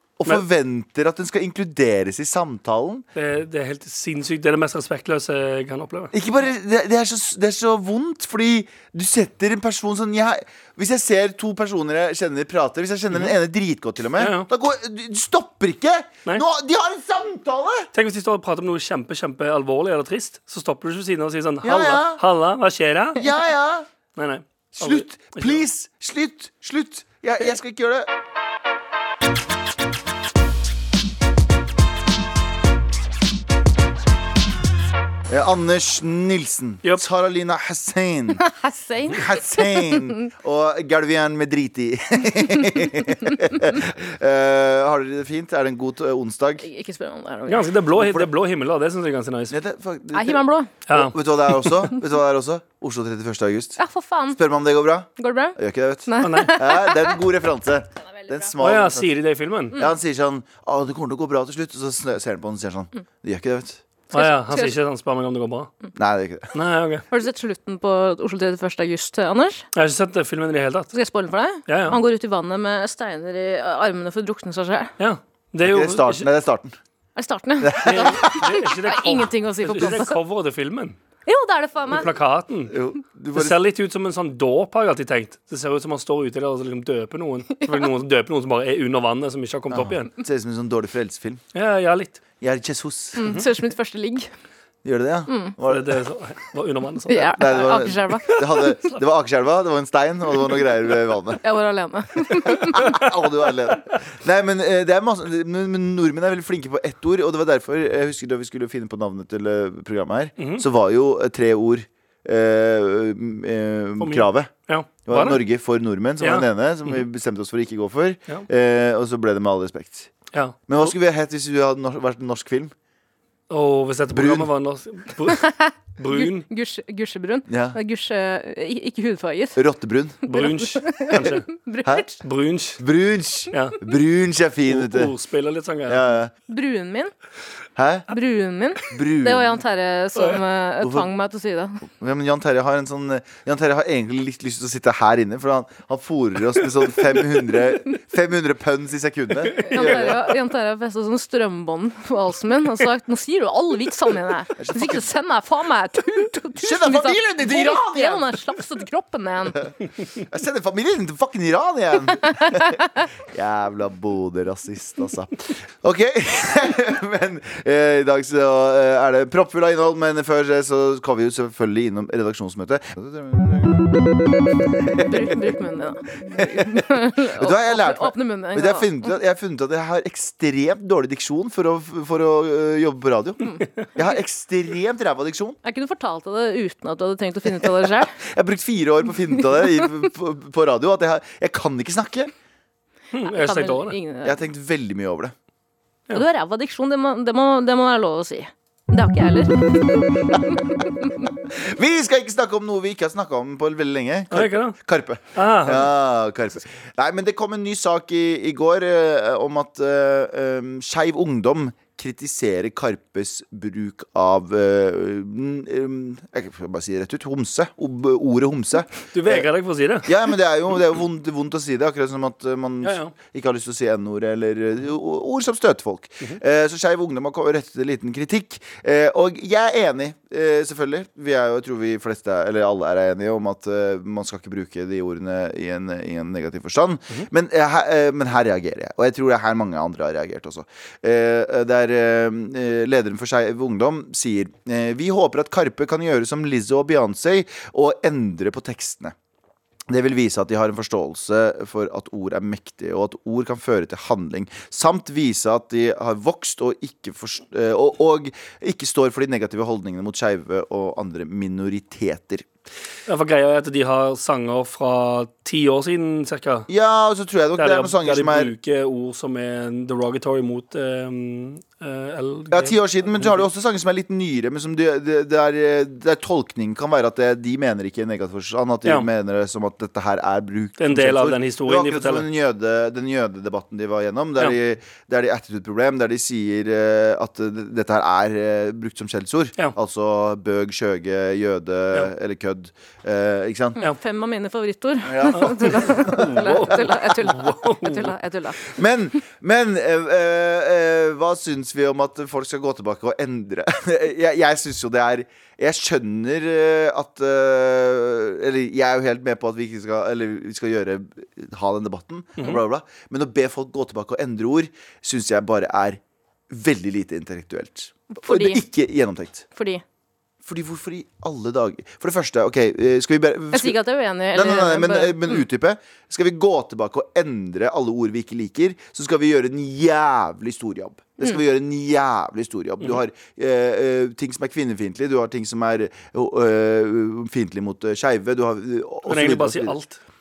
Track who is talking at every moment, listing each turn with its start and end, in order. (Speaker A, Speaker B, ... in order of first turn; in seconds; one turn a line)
Speaker A: 0.2-3.1
Speaker B: 3.1-6.1
Speaker A: 6.1-17.9
Speaker B: 13.1-13.4
Speaker B: 14.2-14.5
Speaker B: 17.9-23.3
Speaker A: 21.6-22.2
Speaker A: 23.1-23.9
Speaker B: 24.2-25.7
Speaker A: 24.8-28.1
Speaker A: 35.3-38.4
Speaker C: 38.4-40.2
Speaker A: 39.1-46.7
Speaker C: 46.6-47.7
Speaker B: 47.5-49.6
Speaker A: 48.0-48.3
Speaker A: 49.5-53.8
Speaker C: 50.1-50.7
Speaker B: 50.9-51.8
Speaker C: 53.8-54.4
Speaker A: 54.3-59.1
Speaker C: 55.2-57.2
Speaker B: 56.2-56.6
Speaker C: 58.0-58.5
Speaker B: 58.6-59.8
Speaker A: 59.8-63.8
Speaker B: 64.1-65.7
Speaker C: 64.1-64.8
Speaker A: 66.0-66.5
Speaker B: 66.5-67.0
Speaker C: 67.1-69.7
Speaker B: 69.7-70.9
Speaker C: 70.9-74.9
Speaker B: 71.7-72.0
Speaker B: 75.0-76.3
Speaker A: 75.6-76.8
Speaker C: 77.2-80.2
Speaker A: 77.6-78.5
Speaker B: 77.8-81.0
Speaker C: 81.3-82.1
Speaker B: 81.9-82.8
Speaker A: 82.7-83.6
Speaker B: 83.3-90.1
Speaker C: 87.6-87.9
Speaker A: 89.7-91.4
Speaker B: 91.5-92.2
Speaker A: 92.4-93.4
Speaker C: 93.2-94.3
Speaker A: 94.8-96.0
Speaker C: 95.3-95.5
Speaker B: 95.7-97.3
Speaker C: 97.1-98.4
Speaker A: 97.3-101.4
Speaker B: 98.3-99.0
Speaker C: 101.4-103.0
Speaker A: 102.3-114.5
Speaker B: 110.4-110.7
Speaker B: 114.0-115.4
Speaker A: 115.0-120.1
Speaker B: 116.2-117.0
Speaker B: 120.3-120.9
Speaker A: 120.7-122.7
Speaker B: 123.5-126.5
Speaker A: 124.1-124.5
Speaker C: 125.4-129.6
Speaker A: 127.5-127.8
Speaker A: 129.6-130.2
Speaker C: 130.3-132.2
Speaker B: 130.3-131.5
Speaker B: 132.2-132.8
Speaker A: 132.8-135.1
Speaker B: 133.5-133.8
Speaker B: 134.7-136.2
Speaker A: 135.9-136.3
Speaker C: 136.5-137.1
Speaker A: 137.8-138.1
Speaker C: 138.1-141.8
Speaker A: 138.9-139.6
Speaker A: 140.8-141.1
Speaker A: 141.8-150.2
Speaker B: 149.5-150.2
Speaker C: 149.6-159.6
Speaker A: 154.6-155.1
Speaker A: 156.6-158.3
Speaker A: 159.6-175.4
Speaker C: 175.0-179.1
Speaker A: 176.4-176.8
Speaker A: 177.4-185.6
Speaker C: 185.6-188.2
Speaker A: 187.8-192.3
Speaker B: 193.1-194.0
Speaker C: 193.2-194.4
Speaker A: 194.2-195.3
Speaker C: 196.1-201.2
Speaker A: 201.5-219.5
Speaker B: 204.3-204.8
Speaker B: 205.3-205.9
Speaker B: 219.1-220.2
Speaker A: 220.0-249.2
Speaker B: 222.8-223.1
Speaker A: 249.9-262.4
Speaker B: 263.1-266.7
Speaker A: 266.7-268.5
Speaker B: 267.6-273.4
Speaker A: 272.5-293.8
Speaker B: 280.8-282.3
Speaker C: 293.8-298.7
Speaker A: 295.1-296.7
Speaker B: 295.3-298.1
Speaker A: 298.6-319.4
Speaker C: 318.1-318.6
Speaker C: 319.5-319.8
Speaker A: 320.4-323.8
Speaker C: 323.5-325.4
Speaker A: 324.3-339.8
Speaker B: 339.1-340.0